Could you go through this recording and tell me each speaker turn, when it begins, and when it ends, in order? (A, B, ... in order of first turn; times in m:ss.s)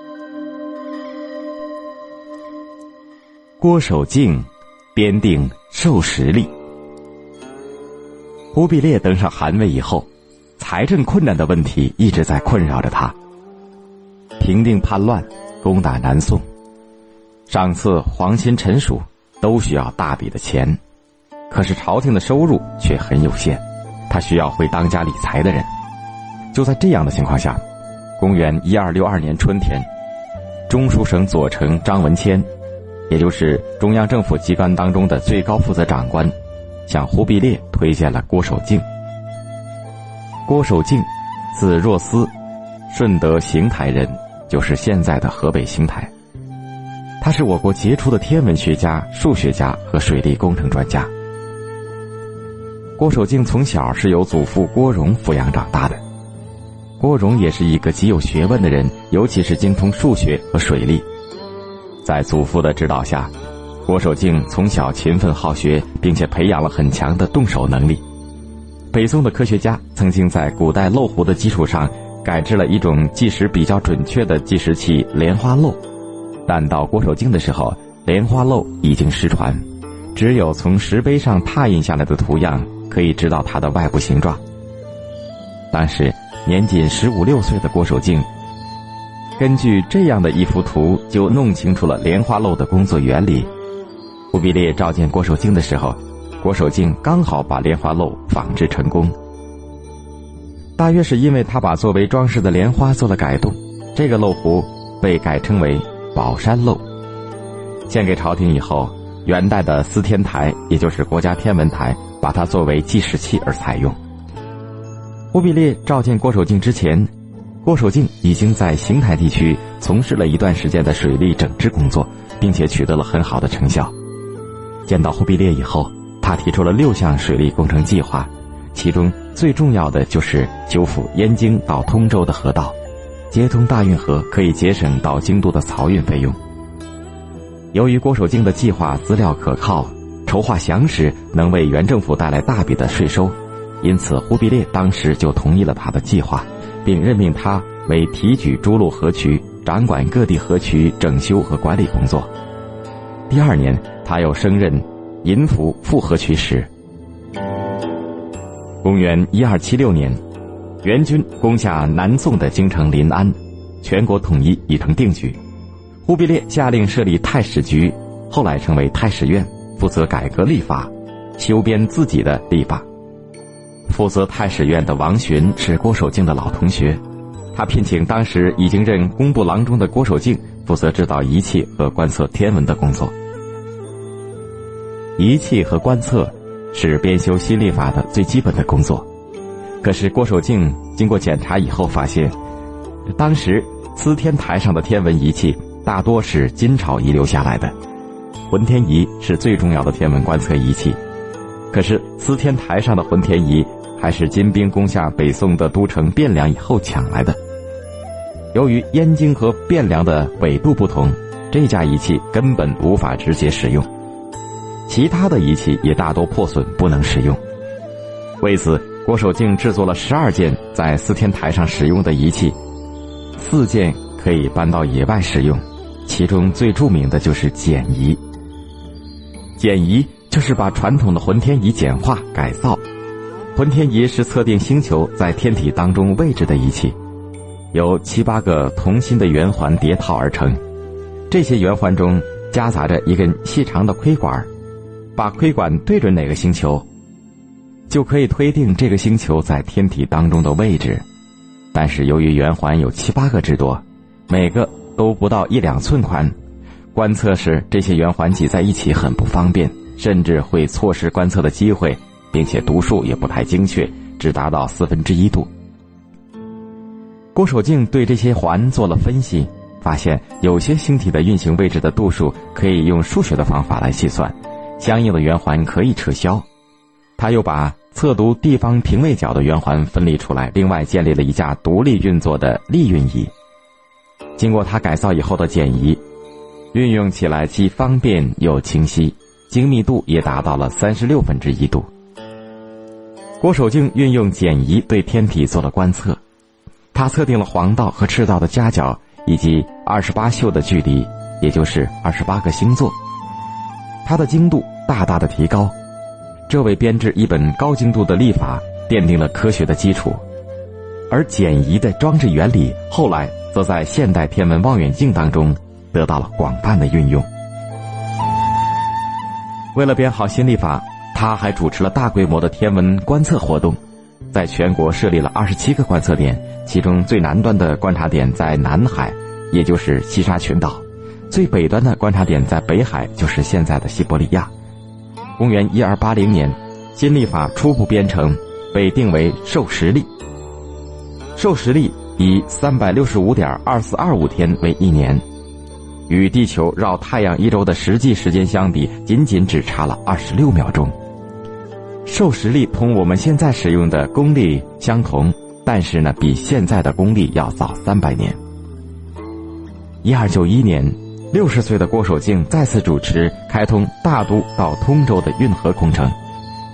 0:03.6-0:06.5 A
0:08.5-0:13.2 A
0:14.4-0:16.4 A
0:17.5-0:20.8 A
0:21.5-0:25.7 A
0:26.5-0:27.6 A
0:28.2-0:29.9 A
0:30.7-0:32.5 A
0:33.1-0:36.3 A
0:36.9-0:38.8 A
0:40.5-0:42.3 A
0:42.9-0:46.1 A
0:47.2-0:51.1 A
0:53.0-0:56.0 A
0:57.0-1:01.0 A
1:02.0-1:03.3 A
1:03.8-1:08.0 A
1:08.9-1:15.8 A
1:16.4-1:19.6 A
1:20.1-1:24.4 A
1:25.7-1:28.3 A
1:29.4-1:33.5 A
1:34.3-1:39.2 A
1:40.8-1:46.8 A
1:47.9-1:54.0 A
1:55.3-1:57.1 A
1:57.6-2:03.9 A
2:04.8-2:12.8 A
2:13.3-2:16.4 A
2:17.7-2:32.3 A
2:33.3-2:36.7 A
2:38.8-2:40.2 A
2:40.8-2:45.4 A
2:46.0-2:52.8 A
2:53.9-2:57.0 A
2:57.5-3:03.1 A
3:05.2-3:09.1 A
3:09.8-3:12.3 A
3:13.2-3:17.7 A
3:18.5-3:21.0 A
3:21.7-3:27.4 A
3:28.5-3:33.9 A
3:34.9-3:37.4 A
3:38.4-3:42.6 A
3:43.4-3:48.2 A
3:49.6-3:52.8 A
3:53.5-3:57.0 A
3:57.7-4:00.6 A
4:01.3-4:04.5 A
4:05.2-4:06.8 A
4:07.9-4:11.0 A
4:11.7-4:16.3 A
4:16.9-4:25.5 A
4:27.3-4:36.4 A
4:37.2-4:43.3 A
4:44.4-4:46.0 A
4:46.7-4:51.9 A
4:53.4-4:56.2 A
4:56.9-5:02.9 A
5:04.0-5:05.7 A
5:06.5-5:10.2 A
5:11.1-5:17.3 A
5:19.7-5:23.8 A
5:24.3-5:34.5 A
5:35.4-5:40.1 A
5:41.4-5:45.2 A
5:46.1-5:50.9 A
5:52.0-5:58.4 A
6:00.0-6:06.2 A